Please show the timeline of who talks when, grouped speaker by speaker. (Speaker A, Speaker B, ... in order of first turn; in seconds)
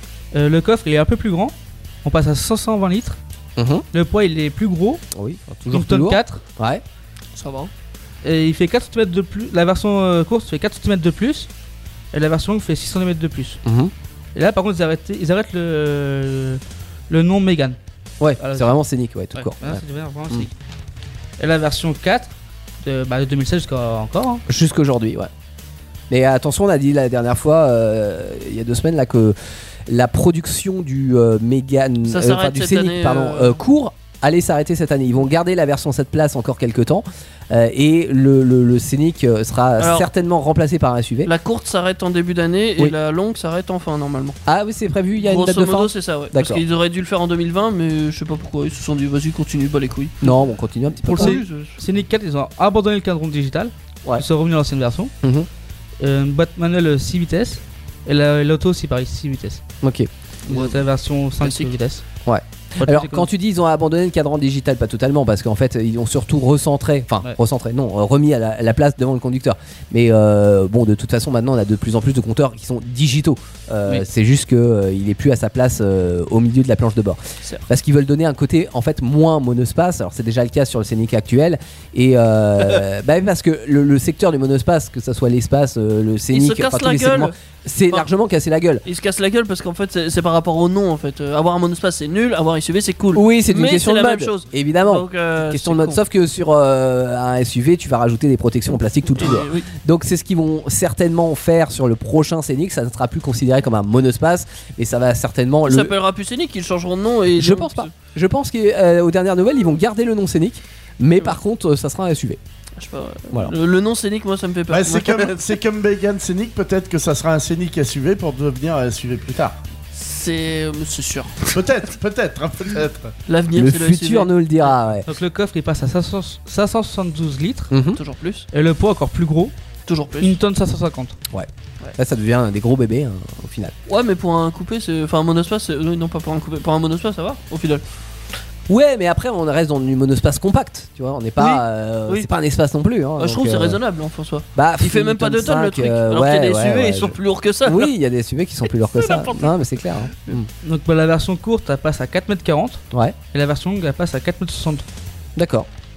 Speaker A: 0.3-1.5, 2.0-3.2, 3.9-5.0, 5.7-6.4, 8.2-11.5, 12.1-13.6, 14.3-17.8, 18.4-18.8, 19.4-20.5, 21.4-22.3, 22.8-24.4, 51.2-55.1, 56.0-59.6, 60.5-62.0, 62.8-63.3, 125.1-127.7, 128.5-129.5, 130.2-131.2, 150.6-154.8
Speaker B: 3.6-3.9, 5.1-6.8, 13.7-13.9, 18.2-20.5, 24.5-25.3, 26.1-29.4, 29.9-41.3, 44.5-46.6, 50.2-51.4, 55.2-55.5, 59.8-60.1, 62.3-88.8, 93.2-106.0, 107.4-112.4, 123.5-125.1, 127.7-128.0, 131.3-133.7, 138.7-143.8, 144.6-150.5, 155.4-155.7
Speaker C: 7.4-7.7, 32.1-33.6, 39.8-40.1, 41.2-44.4, 45.2-50.3, 51.0-51.8, 60.5-60.8, 61.4-61.8, 86.3-87.3, 88.8-96.0, 99.2-99.7, 105.7-107.9, 112.8-115.4, 119.9-121.5, 123.3-124.7, 127.9-128.5, 129.9-130.4, 133.9-137.8, 141.4-142.3, 143.2-147.9, 148.9-149.6
Speaker D: 114.7-119.6, 121.5-123.1